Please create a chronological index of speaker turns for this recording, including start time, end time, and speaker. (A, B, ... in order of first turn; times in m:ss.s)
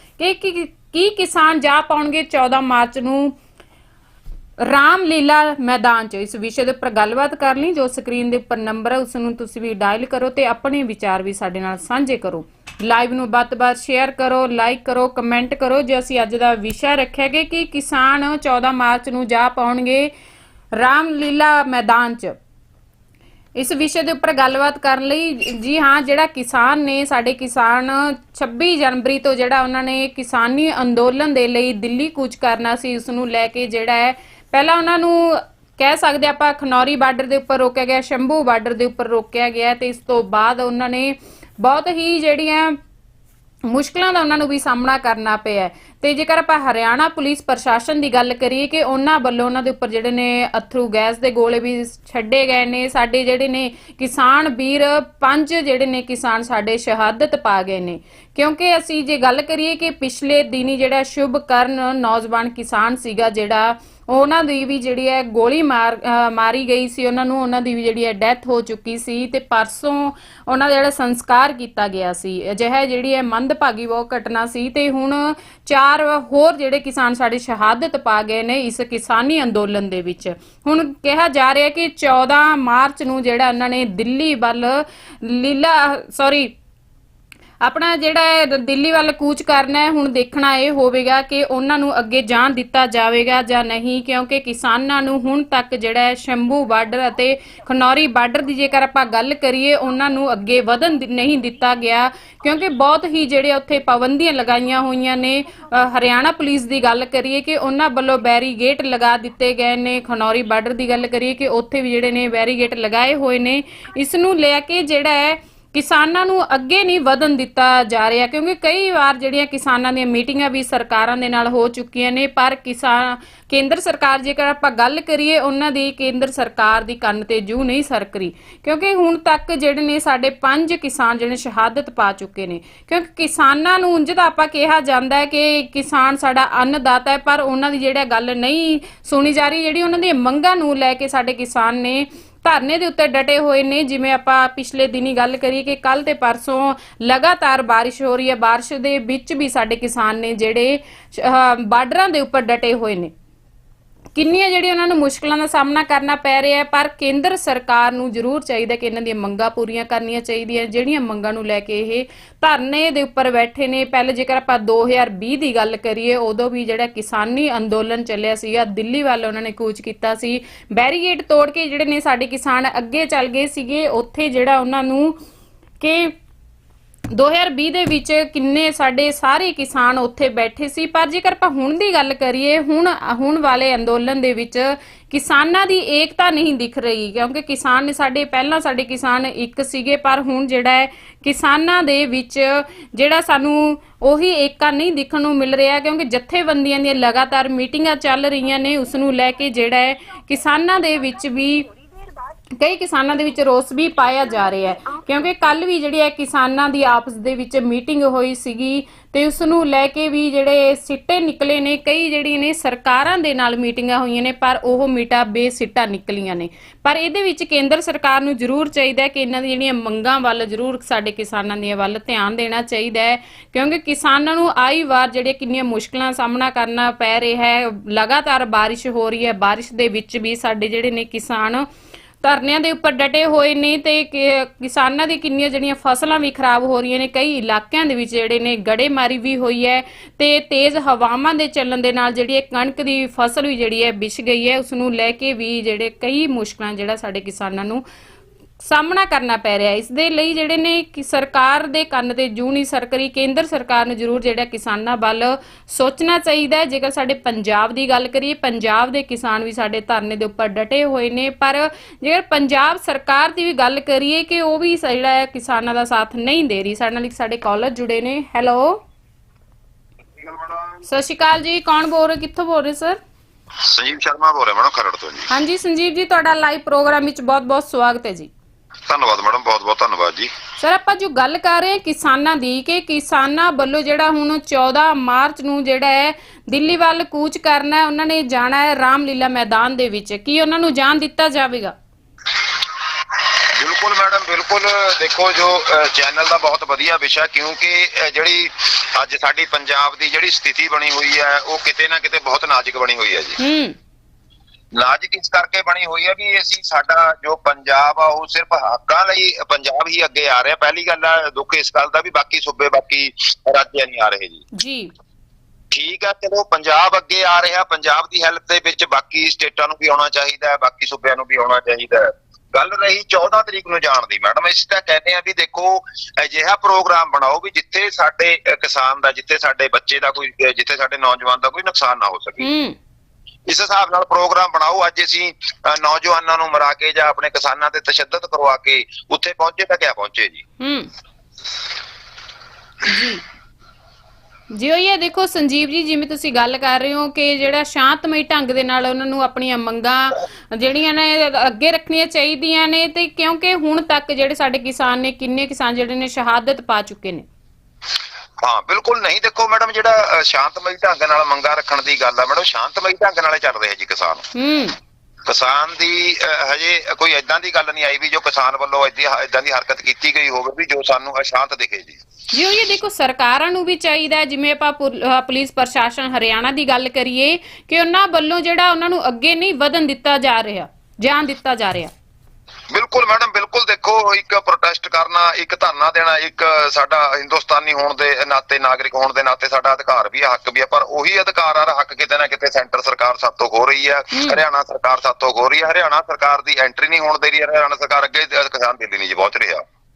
0:00.2-0:03.4 A
0:04.6-0:20.1 A
0:20.8-0:22.4 A
0:23.6-0:42.8 A
0:43.7-1:26.5 A
1:27.6-2:33.1 A
2:34.1-2:55.2 A
2:55.8-2:56.1 A
2:57.1-3:21.7 A
3:22.6-3:51.6 A
3:52.2-4:07.8 A
4:08.6-4:28.8 A
4:30.2-4:30.8 B
4:30.8-4:33.0 A
4:33.6-4:35.3 B
4:35.3-4:38.3 A
4:38.9-4:40.3 B
4:40.6-4:51.7 A
4:53.6-5:03.4 B
5:03.4-5:03.8 A
5:04.7-5:14.4 B
5:14.5-5:14.9 A
5:15.7-5:32.4 B
5:32.4-5:32.8 A
5:33.5-5:40.4 B
5:40.6-5:40.9 A
5:42.8-5:43.2 A
5:44.5-5:57.2 A
5:58.4-6:04.2 B
6:04.3-6:04.7 A
6:05.2-6:12.0 B
6:12.3-6:21.9 A
6:22.7-6:39.6 B
6:34.1-6:34.4 A